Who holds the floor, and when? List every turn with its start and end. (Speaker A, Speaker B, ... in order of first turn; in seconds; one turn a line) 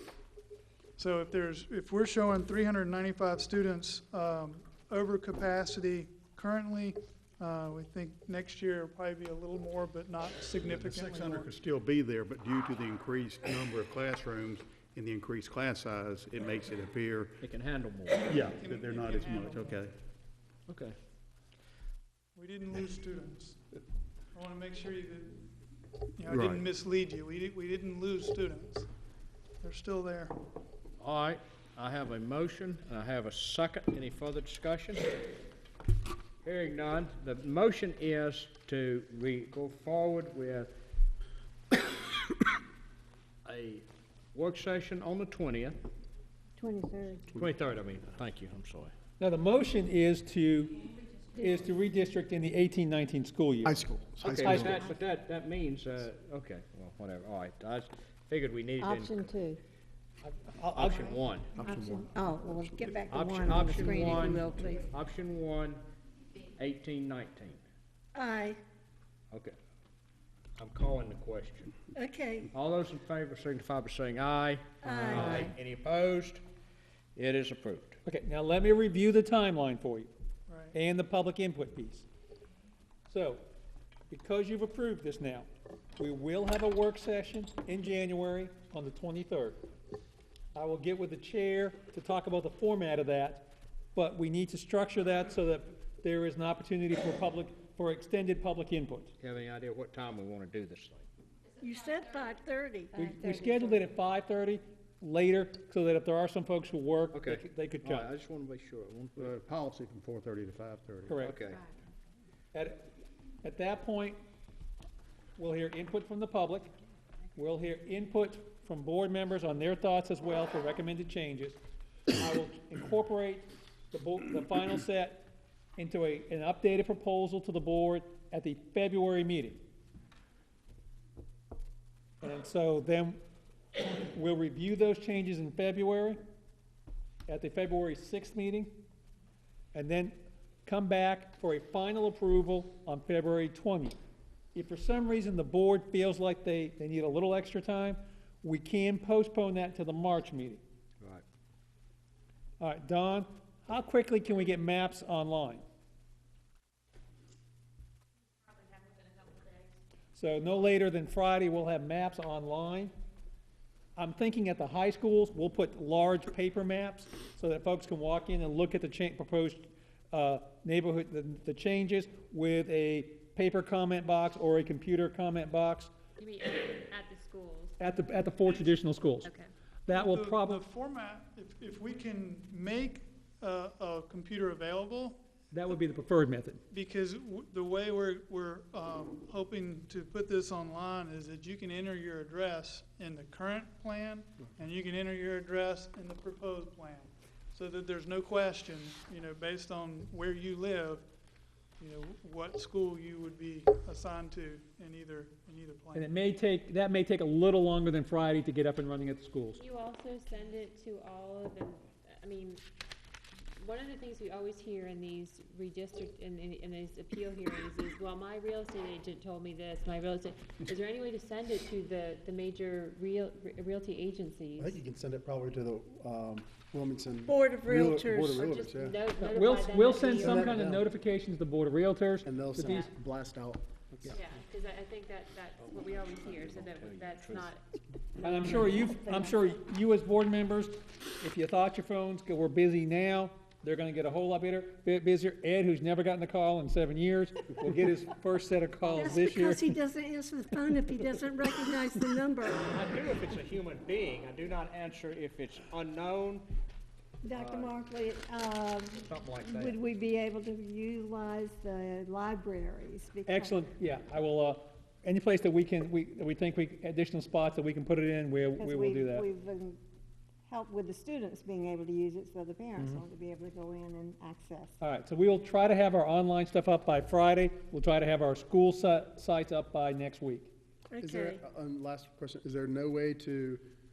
Speaker A: 1.0-11.5
Speaker B: 10.7-17.4
Speaker C: 17.4-18.4
Speaker B: 18.3-19.9
Speaker A: 18.6-19.8
Speaker C: 20.7-20.9
Speaker A: 22.3-23.6
Speaker A: 24.3-25.4
Speaker A: 26.2-28.9
Speaker B: 26.3-26.6
Speaker A: 29.6-30.3
Speaker C: 31.0-35.1
Speaker C: 36.4-40.7
Speaker C: 43.4-45.8
Speaker D: 46.6-47.3
Speaker C: 47.3-48.9
Speaker E: 49.2-50.8
Speaker E: 51.4-54.9
Speaker B: 53.7-54.6
Speaker F: 54.0-54.5
Speaker C: 54.2-59.3
Speaker D: 58.8-59.6
Speaker E: 60.2-61.1
Speaker C: 60.7-61.6
Speaker B: 61.6-62.1
Speaker D: 61.6-64.8
Speaker C: 63.1-65.8
Speaker C: 66.6-67.6
Speaker D: 68.1-68.6
Speaker C: 70.5-71.7
Speaker D: 72.0-72.5
Speaker C: 72.5-76.4
Speaker D: 74.8-75.5
Speaker C: 77.1-78.0
Speaker E: 78.0-80.1
Speaker A: 80.5-80.8
Speaker E: 80.7-82.0
Speaker E: 83.1-83.4
Speaker E: 84.1-89.6
Speaker E: 90.5-99.1
Speaker C: 99.2-101.0
Speaker D: 101.6-103.1
Speaker E: 102.9-108.1
Speaker G: 103.2-103.8
Speaker C: 107.1-109.3
Speaker B: 109.2-111.1
Speaker E: 111.0-111.4
Speaker C: 111.2-111.6
Speaker E: 112.5-112.8
Speaker E: 113.4-114.2
Speaker E: 115.4-116.7
Speaker E: 117.3-129.6
Speaker E: 132.2-133.2
Speaker E: 134.1-136.2
Speaker E: 137.3-138.8
Speaker E: 139.7-143.9
Speaker E: 144.5-150.6
Speaker E: 152.6-155.6
Speaker E: 160.1-162.9
Speaker E: 163.9-175.9
Speaker G: 176.2-177.8
Speaker E: 177.8-179.3
Speaker G: 179.2-179.5
Speaker E: 179.8-180.6
Speaker A: 179.9-185.2
Speaker E: 185.5-186.6
Speaker A: 186.7-201.1
Speaker A: 201.8-206.1
Speaker E: 205.9-209.6
Speaker G: 209.6-212.6
Speaker G: 213.6-224.8
Speaker F: 224.6-229.0
Speaker D: 227.3-227.7
Speaker G: 228.3-230.7
Speaker E: 229.2-232.8
Speaker F: 230.1-230.9
Speaker F: 232.2-234.2
Speaker G: 232.6-232.9
Speaker G: 234.1-237.6
Speaker C: 236.3-237.5
Speaker G: 238.2-239.4
Speaker E: 238.2-249.8
Speaker D: 251.3-252.6
Speaker C: 252.6-256.5
Speaker D: 257.2-263.6
Speaker C: 257.3-257.8
Speaker C: 258.9-259.8
Speaker E: 263.2-269.3
Speaker D: 268.5-269.8
Speaker D: 270.4-274.8
Speaker E: 274.8-280.5
Speaker F: 281.0-283.6